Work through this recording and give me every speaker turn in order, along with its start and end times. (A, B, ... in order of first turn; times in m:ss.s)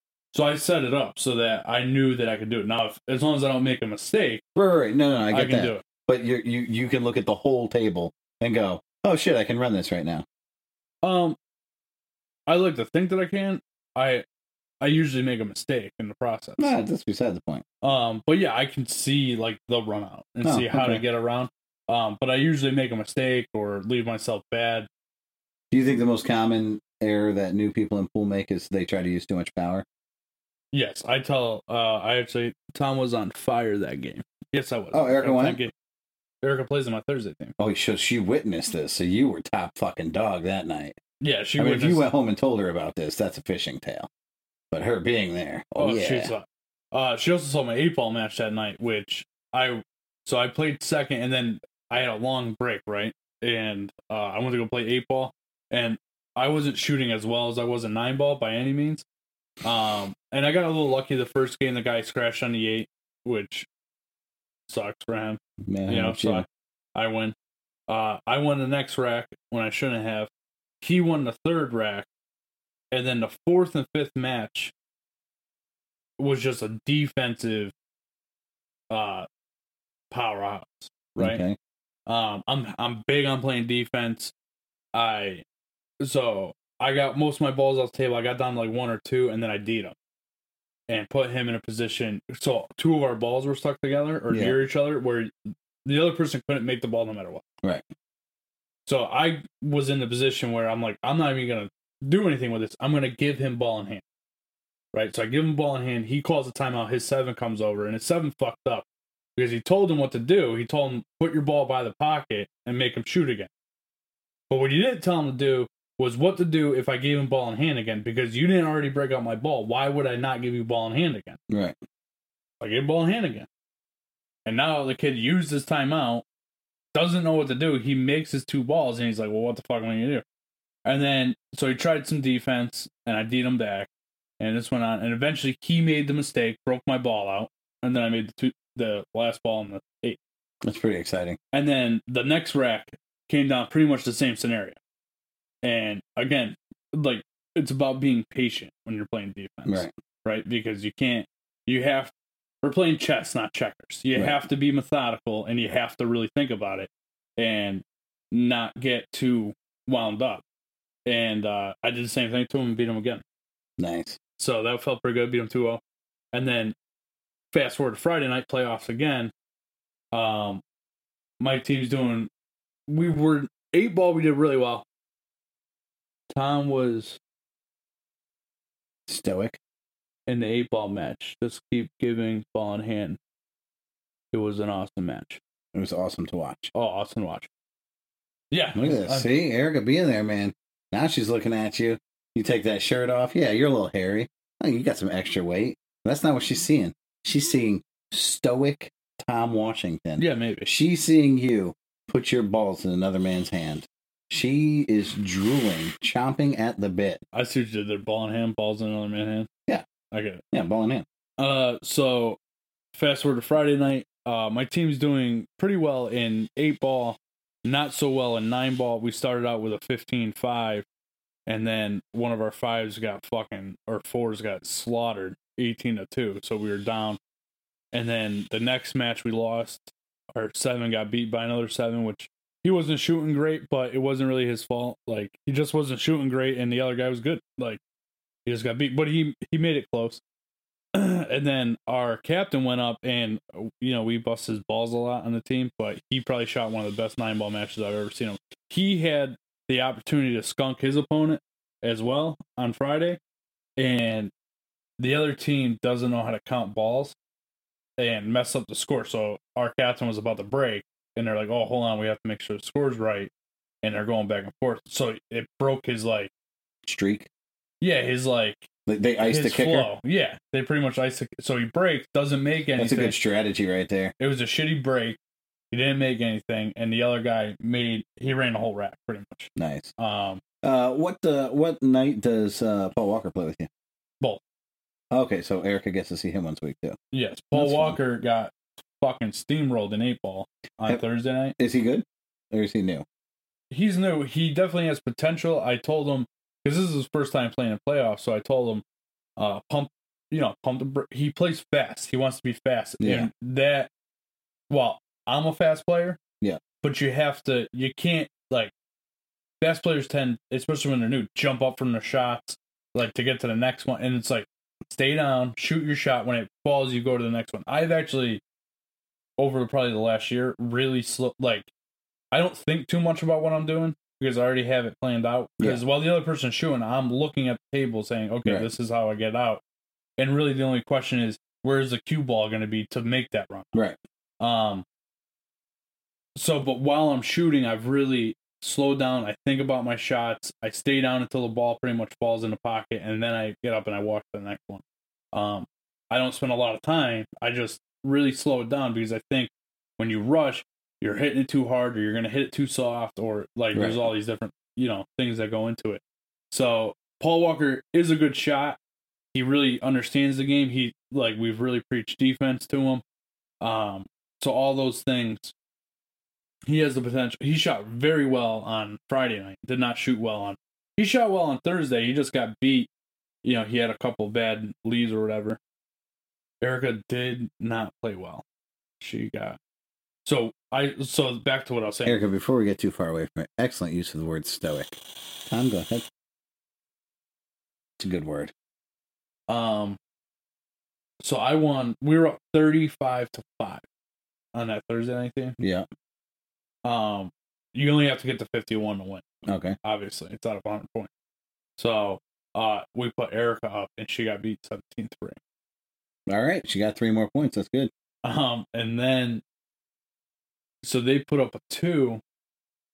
0:00.3-0:04.4 A
0:04.6-0:10.2 B
0:05.3-0:05.8 A
0:11.0-0:11.4 A
0:12.5-0:14.2 A
0:14.8-0:16.7 A
0:16.6-0:17.6 B
0:17.8-0:24.9 A
0:20.4-0:21.0 B
0:25.7-0:29.8 B
0:30.7-0:35.7 A
0:34.9-0:35.6 B
0:36.4-0:37.5 A
0:37.6-0:41.0 B
0:41.2-0:42.1 A
0:41.6-0:44.1 B
0:44.7-0:46.3 B
0:45.8-0:59.0 A
0:59.6-1:03.7 A
1:04.7-1:07.4 A
1:05.6-1:06.5 B
1:07.9-1:10.3 A
1:10.8-1:12.1 A
1:12.9-1:14.7 A
1:16.2-1:17.7 A
1:18.9-1:19.3 A
1:20.1-1:21.4 A
1:21.2-1:21.6 B
1:22.1-1:24.3 A
1:24.9-1:25.4 A
1:26.0-1:30.0 A
1:30.9-1:35.3 A
1:34.3-1:34.6 B
1:35.8-1:37.4 A
1:38.9-1:44.0 A
1:44.9-1:48.8 A
1:49.4-1:53.5 A
1:54.5-2:01.4 A
2:01.5-2:01.8 B
2:02.6-2:03.5 A
2:04.5-2:06.2 A
2:06.9-2:10.2 A
2:10.8-2:13.9 A
2:14.4-2:20.2 A
2:20.6-2:21.4 B
2:21.5-2:24.8 A
2:25.6-2:40.4 A
2:29.7-2:29.9 B
2:41.1-2:43.2 A
2:43.8-2:44.2 B
2:44.4-2:45.8 A
2:46.3-2:46.8 A
2:47.5-2:49.3 A
2:50.1-2:50.6 A
2:51.4-2:52.3 A
2:52.9-2:54.8 A
2:56.3-2:57.2 A
2:59.1-2:59.6 B
3:00.3-3:03.2 A
3:04.3-3:05.4 A
3:05.7-3:06.7 B
3:06.7-3:07.5 A
3:08.5-3:09.3 A
3:08.8-3:27.2 B
3:20.2-3:20.7 A
3:27.3-3:29.5 A
3:30.1-3:30.4 A
3:30.5-3:31.1 B
3:31.4-3:32.4 A
3:32.9-3:40.8 A
3:41.5-3:47.2 A
3:47.9-3:57.8 A
3:58.5-4:00.2 A
4:00.9-4:13.2 A
4:13.8-4:14.3 A
4:15.0-4:17.2 A
4:18.0-4:23.3 A
4:23.8-4:26.3 A
4:26.8-4:27.3 B
4:27.8-4:28.7 A
4:28.9-4:29.9 B
4:29.2-4:33.2 A
4:32.8-4:34.1 B
4:34.2-4:35.2 A
4:35.7-4:40.4 A
4:39.6-4:39.9 B
4:40.6-4:43.7 B
4:45.1-4:47.0 B
4:47.1-4:51.6 A
4:47.5-4:48.0 B
4:51.6-4:53.0 B
4:53.7-4:58.8 A
4:59.4-5:03.9 A
5:03.0-5:03.3 B
5:04.7-5:06.2 A
5:06.8-5:08.7 A
5:09.6-5:18.4 A
5:19.4-5:21.7 A
5:22.3-5:29.6 A
5:30.2-5:33.8 A
5:34.4-5:34.8 A
5:36.4-5:58.8 A
5:53.7-5:54.1 B
5:59.3-6:03.0 A
6:03.6-6:05.5 A
6:06.7-6:12.9 A
6:13.4-6:15.6 A
6:16.6-6:18.4 A
6:19.0-6:19.6 A
6:20.2-6:22.2 A
6:22.1-6:25.0 B
6:25.5-6:26.1 B
6:28.0-6:28.5 B
6:29.5-6:30.0 A
6:31.2-6:33.8 A
6:34.5-6:35.6 A
6:35.6-6:35.9 B
6:36.8-6:39.2 A
6:39.5-6:39.8 B
6:39.8-6:41.1 A
6:41.8-6:45.4 A
6:46.3-6:47.9 B
6:48.2-6:49.4 A
6:50.8-6:52.2 A